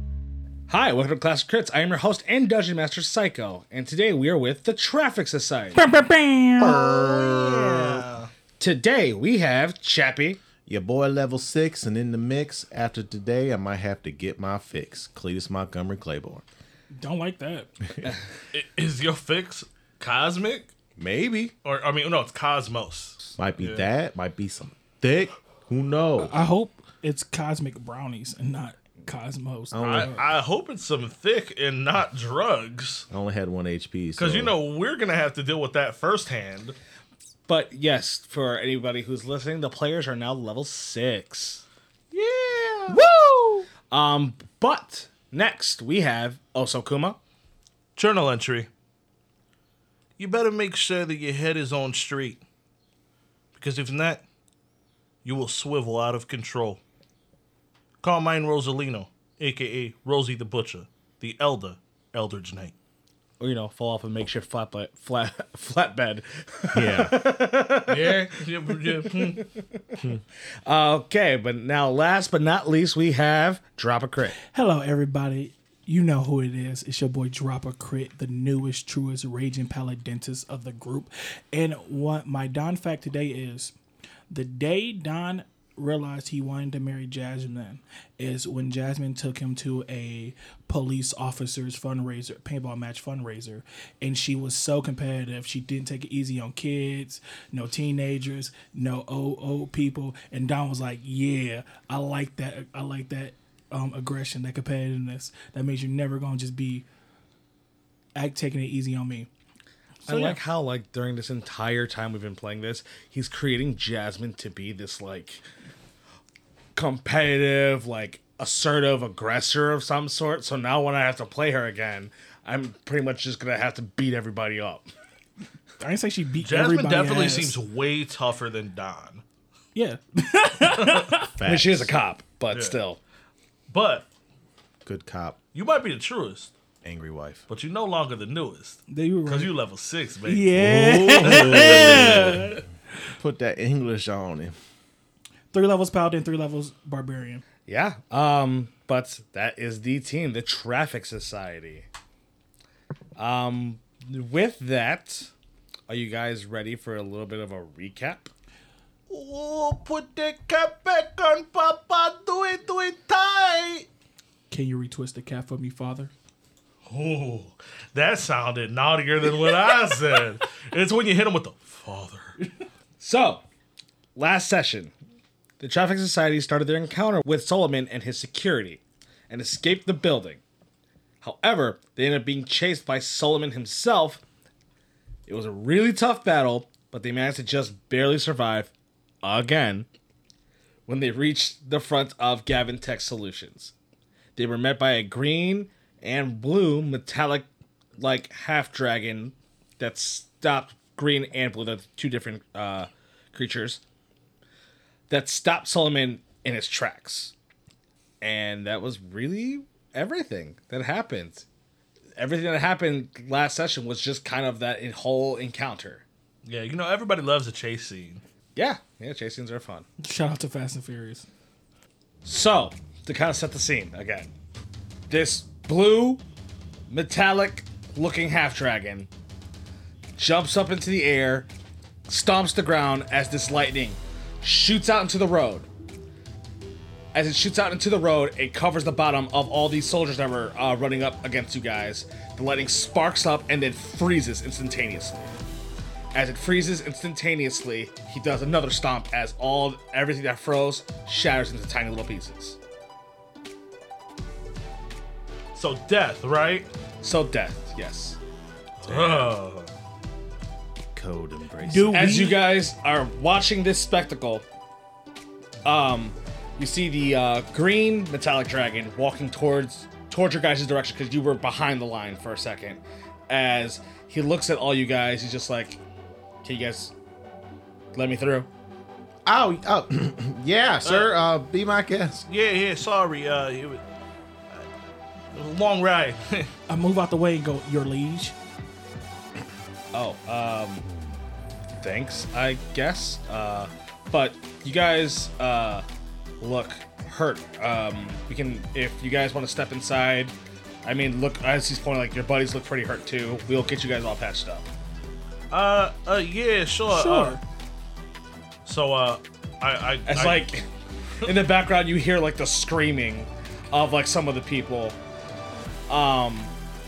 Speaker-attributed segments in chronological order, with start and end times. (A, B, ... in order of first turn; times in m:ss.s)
0:00.7-0:05.8 A
0:05.7-0:06.7 B
0:06.6-0:08.0 C
0:06.6-0:08.3 D
0:08.6-0:10.4 A
0:10.6-0:16.4 C
0:16.9-0:17.7 B
0:18.5-0:20.7 D
0:21.0-0:21.5 C
0:21.6-0:23.8 D
0:23.4-0:26.3 C
0:26.2-0:30.2 B
0:29.7-0:30.1 C
0:29.8-0:33.1 D
0:33.1-0:34.5 C
0:34.2-0:36.8 D
0:37.5-0:41.6 A
0:42.1-0:42.9 C
0:42.9-0:43.6 B
0:43.9-0:47.2 A
0:48.0-0:48.7 D
0:50.2-0:52.4 D
0:53.5-0:54.2 D
0:55.2-0:56.8 D
0:58.0-1:02.7 D
1:03.4-1:09.8 A
1:06.7-1:07.2 C
1:07.9-1:09.4 D
1:10.6-1:14.4 A
1:14.5-1:23.7 B
1:24.3-1:46.8 B
1:48.2-1:49.3 B
1:50.0-1:50.4 B
1:50.1-1:55.4 A
1:56.8-2:04.8 A
2:05.8-2:07.6 B
2:06.4-2:09.2 D
2:09.7-2:11.3 B
2:10.6-2:11.1 D
2:11.4-2:11.9 C
2:11.4-2:13.0 A
2:12.5-2:12.8 D
2:13.7-2:14.1 D
2:14.8-2:15.4 C
2:15.5-2:16.5 D
2:16.8-2:17.4 C
2:17.5-2:22.2 D
2:18.9-2:19.5 B
2:20.2-2:22.6 B
2:20.6-2:22.6 C
2:23.2-2:24.5 C
2:25.5-2:27.4 B
2:27.7-2:31.8 A
2:33.2-2:35.3 A
2:35.9-2:38.3 A
2:39.1-2:43.9 D
2:44.5-2:46.1 B
2:46.9-2:52.3 D
2:53.0-2:53.4 A
2:54.2-2:54.9 A
2:55.6-3:00.4 A
3:01.2-3:04.2 A
3:05.3-3:08.7 A
3:09.2-3:09.9 A
3:10.9-3:13.7 A
3:14.4-3:17.5 A
3:18.0-3:23.8 A
3:25.1-3:27.3 A
3:28.2-3:31.4 A
3:32.2-3:36.0 A
3:36.4-3:38.2 D
3:38.6-3:39.8 A
3:40.0-3:41.2 B
3:42.2-3:44.3 A
3:45.1-3:46.2 A
3:46.9-3:49.1 A
3:50.2-3:51.5 A
3:52.1-3:55.7 A
3:57.1-4:05.3 A
4:06.1-4:12.6 A
4:15.5-4:16.7 D
4:17.0-4:18.2 A
4:18.8-4:19.7 D
4:18.9-4:19.3 C
4:19.0-4:19.3 A
4:20.9-4:22.1 C
4:21.7-4:22.4 B
4:21.9-4:24.4 A
4:25.6-4:35.8 A
4:36.4-4:36.9 A
4:37.9-4:38.5 A
4:39.2-4:42.2 C
4:40.8-4:41.1 D
4:42.3-4:43.8 D
4:45.3-4:46.5 D
4:46.7-4:48.4 B
4:49.9-4:50.9 A
4:51.8-4:55.8 A
4:56.4-5:00.3 A
5:00.8-5:04.7 A
5:05.5-5:07.4 D
5:06.9-5:07.4 B
5:08.6-5:10.5 D
5:10.1-5:10.6 A
5:11.2-5:15.0 A
5:15.9-5:16.5 A